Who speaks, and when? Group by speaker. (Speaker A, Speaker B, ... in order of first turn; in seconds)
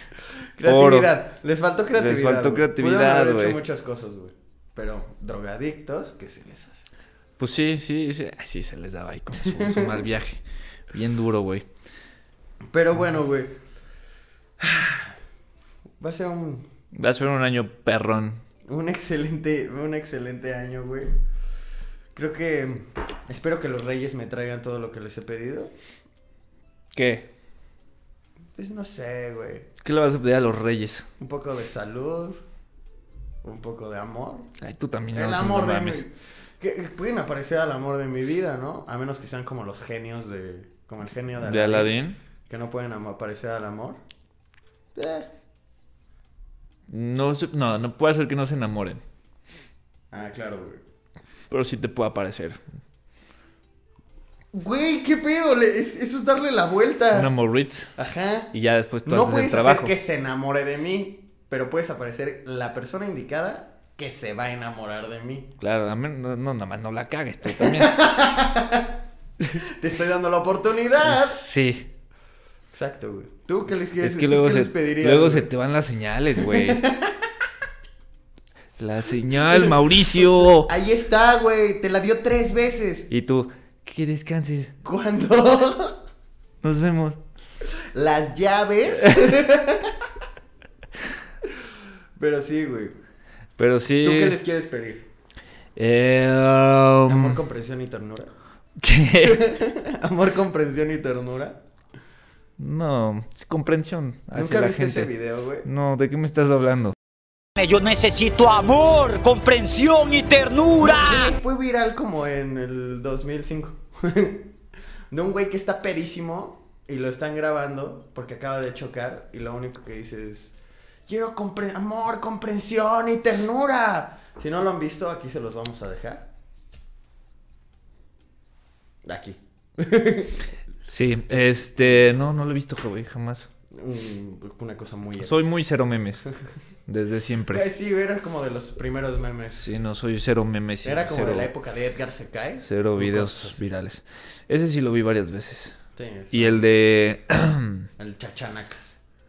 Speaker A: 0.6-6.8, 9.4-10.0, 12.7-13.5, 14.6-15.1, 16.0-16.7, 18.6-21.2, 22.1-25.7, 28.5-29.7, 31.2-32.4, 33.4-34.5, 35.1-41.9, 42.5-44.0, 44.9-45.3, 50.1-50.8, 54.5-57.3, 58.0-58.5, 59.0-65.5, 67.4-68.9, 69.6-71.4, 72.7-75.5, 76.4-77.2, 79.5-79.8, 80.5-83.1, 84.8-86.0, 87.9-90.1, 92.2-93.0, 94.0-95.0, 97.1-98.3, 99.2-101.6, 104.3-105.7, 110.8-114.5, 115.1-120.5, 121.1-126.3, 129.0-130.4, 131.3-132.1, 133.7-135.4, 137.5-139.7, 140.8-143.6, 145.9-146.6, 148.0-149.0
Speaker B: 0.6-1.1, 1.9-3.6, 7.4-10.4, 10.9-11.7, 16.9-18.4, 26.9-27.3, 29.8-31.1, 34.6-36.0, 41.4-42.2, 46.9-49.0, 51.5-52.6, 57.1-57.9, 58.5-59.9, 65.6-68.0, 71.0-71.9, 74.0-76.8, 78.8-80.7, 83.1-84.7, 86.6-87.2, 89.0-89.2, 93.6-94.4, 95.8-97.4, 98.8-99.4, 102.6-105.1, 105.6-107.0, 130.8-133.5, 135.2-136.2, 136.9-137.7, 139.6-141.5, 142.6-145.8, 146.3-147.9
Speaker C: 107.5-111.3